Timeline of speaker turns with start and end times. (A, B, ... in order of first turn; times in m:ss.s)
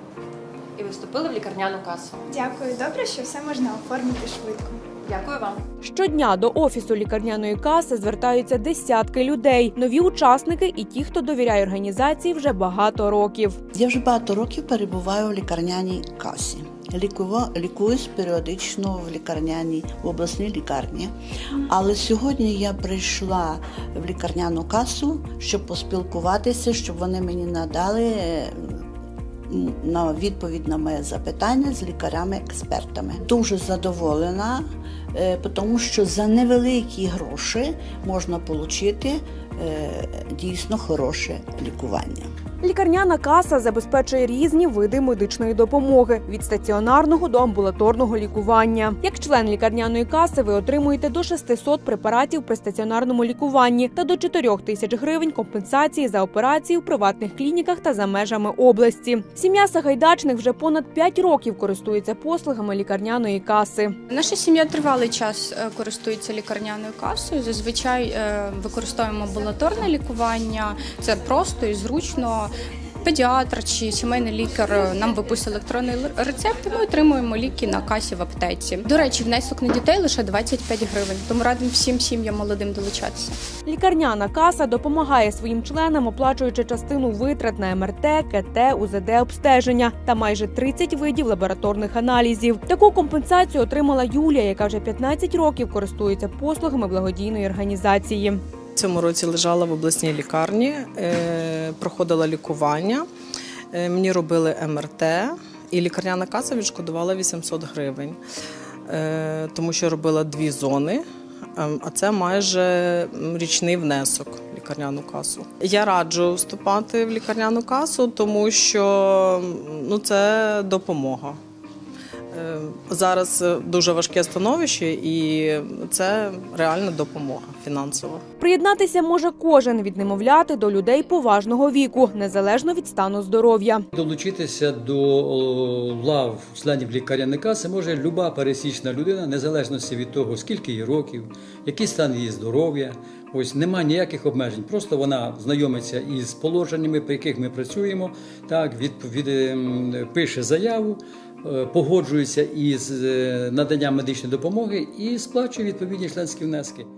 0:00.8-0:02.2 A
0:02.3-0:04.8 B
0:05.0-0:05.6 A
0:05.8-0:13.6 C
0:13.7-0:28.8 D
0:29.5-0:42.3 D
0:42.6-1:04.0 C
1:04.1-1:23.4 E
1:23.6-1:38.4 C
1:38.8-1:43.0 F
1:43.7-1:48.2 F
1:48.9-1:51.0 F
1:51.6-2:01.4 F
2:02.3-2:08.2 F
2:08.4-2:13.8 C
2:13.9-2:36.9 G